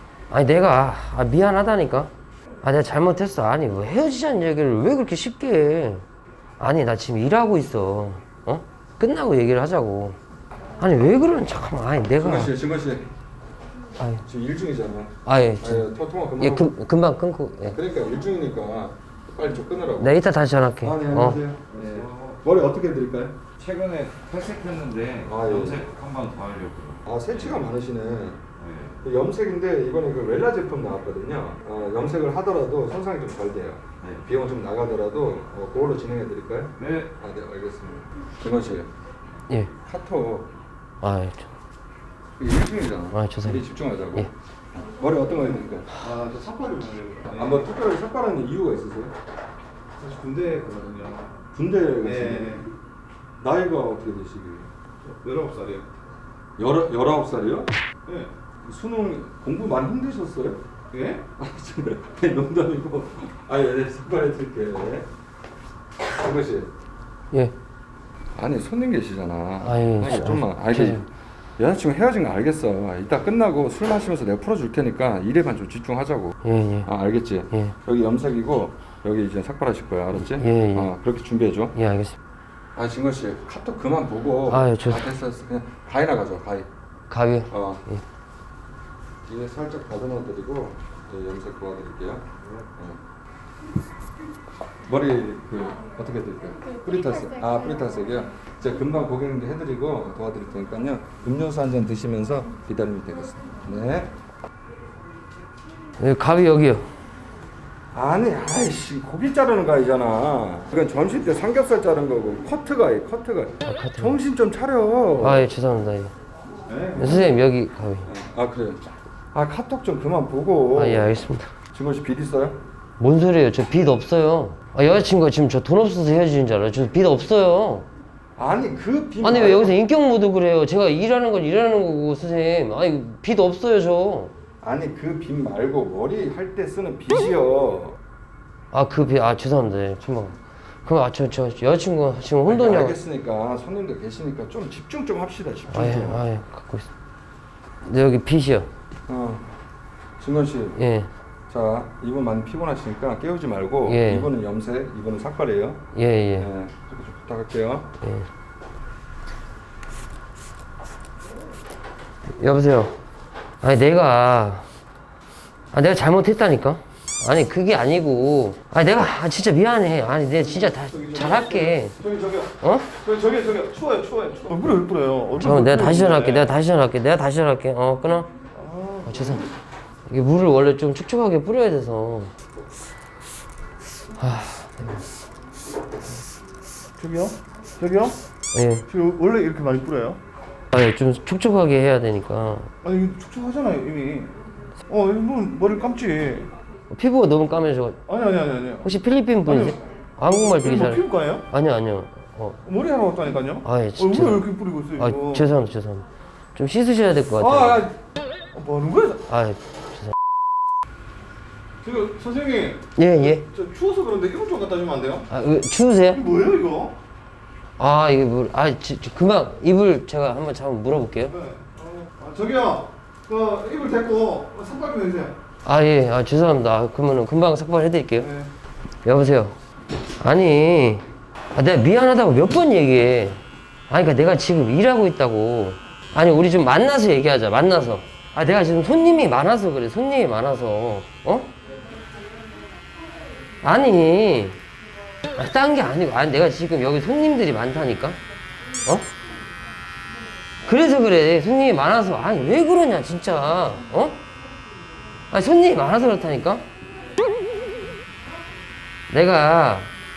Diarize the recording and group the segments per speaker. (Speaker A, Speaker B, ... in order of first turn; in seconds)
Speaker A: 0.3-2.1, 2.6-6.0, 6.6-10.2, 10.8-12.5, 14.0-14.2, 15.2-17.8, 20.0-21.4, 41.0-41.5, 43.1-44.3, 69.6-71.0, 76.4-76.9, 80.3-80.9, 81.7-82.2, 84.5-85.1, 87.1-88.0, 106.0-106.8, 113.6-114.2, 115.2-116.1, 117.0-118.1, 120.7-121.5, 123.0-127.9, 129.2-134.3, 138.7-143.0, 145.7-146.9, 147.8-148.7, 150.7-151.1, 153.8-154.3, 155.9-156.5, 158.0-158.3, 162.4-162.9, 163.6-164.6, 165.7-171.9, 172.6-172.9, 175.4-178.3, 179.0-179.4, 180.1-182.3, 184.2-185.0, 188.5-188.8, 190.7-192.7, 196.9-198.0, 198.8-202.6, 203.6-206.0, 206.6-207.8, 209.3-210.1, 212.9-213.4, 215.3-216.2, 217.8-221.3, 225.6-228.3, 229.0-229.5, 230.2-231.0, 231.5-241.5, 243.6-244.6, 245.4-248.2, 250.6-254.2, 255.3-256.6, 259.1-259.9
Speaker B: 12.2-13.1, 14.2-16.7, 17.7-20.2, 20.8-23.4, 25.2-25.8, 27.0-28.4, 29.0-38.9, 39.8-40.5, 42.4-45.9, 47.3-49.1, 51.5-52.7, 53.4-54.7, 56.6-57.7, 58.6-60.6, 61.4-65.1, 66.1-66.7, 68.3-71.0, 71.6-81.7, 82.7-86.7, 87.5-87.8, 89.3-93.0, 94.8-104.1, 107.9-115.5, 118.0-121.1, 121.7-122.6, 128.4-129.7, 134.6-138.0, 142.4-146.2, 149.1-149.5, 150.2-150.8, 151.5-155.8, 156.4-157.9
Speaker C: 21.7-22.4, 23.6-27.6, 28.6-29.0, 36.8-37.1
Speaker D: 46.0-47.7, 50.0-51.4, 52.0-52.7, 55.0-55.8, 58.0-58.3, 60.9-61.2, 116.7-117.3, 170.4-176.5, 178.5-179.5, 187.0-188.2, 188.9-190.2, 192.8-194.3, 194.9-196.5, 198.1-198.9, 199.4-201.4, 202.6-205.5, 207.4-207.9, 208.5-209.2, 211.8-215.3, 216.1-216.9, 221.3-225.3, 228.2-228.5